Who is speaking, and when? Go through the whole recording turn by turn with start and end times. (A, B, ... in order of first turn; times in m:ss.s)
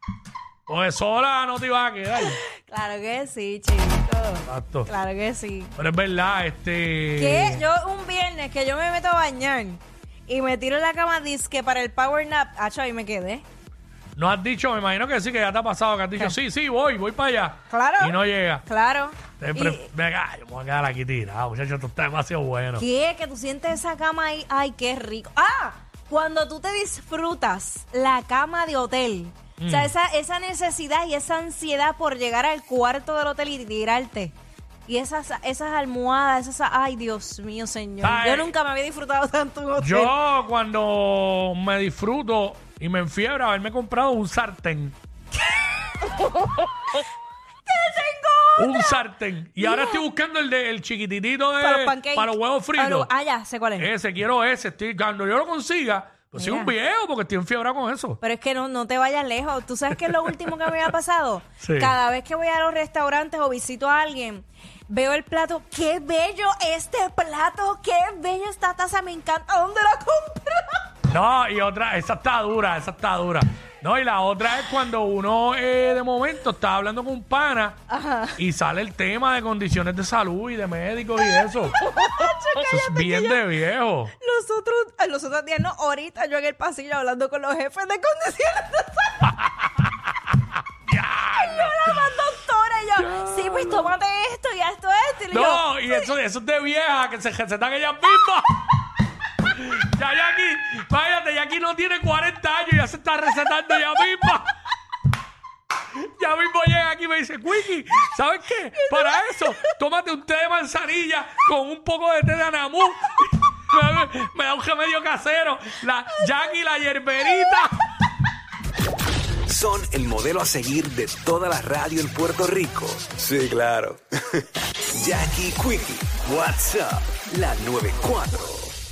0:00.7-0:02.4 A
0:02.2-0:05.8 B
0:04.5-0:04.9 A
0:05.8-0:07.6 A
0:07.2-0:13.4 B
0:14.2-0:18.7 A
0:17.7-0:19.9 B
0:19.2-0:22.8 A
0:22.8-0:34.4 B
0:29.6-0:29.9 A
0:34.9-0:40.1 B
0:38.0-0:38.5 A
0:39.8-0:45.0 A
0:47.6-0:49.0 B
0:48.6-0:58.2 A
0:49.6-0:50.0 B
0:51.6-0:53.9 B
0:56.3-0:56.7 B
0:58.2-1:10.9 B
1:00.0-1:00.9 A
1:01.6-1:02.0 A
1:11.1-1:17.8 A
1:17.9-1:18.4 B
1:18.4-1:21.8 A
1:21.7-1:23.5 B
1:22.6-1:24.1 A
1:24.2-1:29.3 B
1:30.9-1:32.1 A
1:31.3-1:36.0 B
1:33.0-1:33.9 A
1:35.3-1:38.5 A
1:39.4-1:44.5 A
1:46.0-1:57.8 A
1:48.9-1:49.7 B
1:59.5-2:04.0 C
2:05.0-2:08.7 C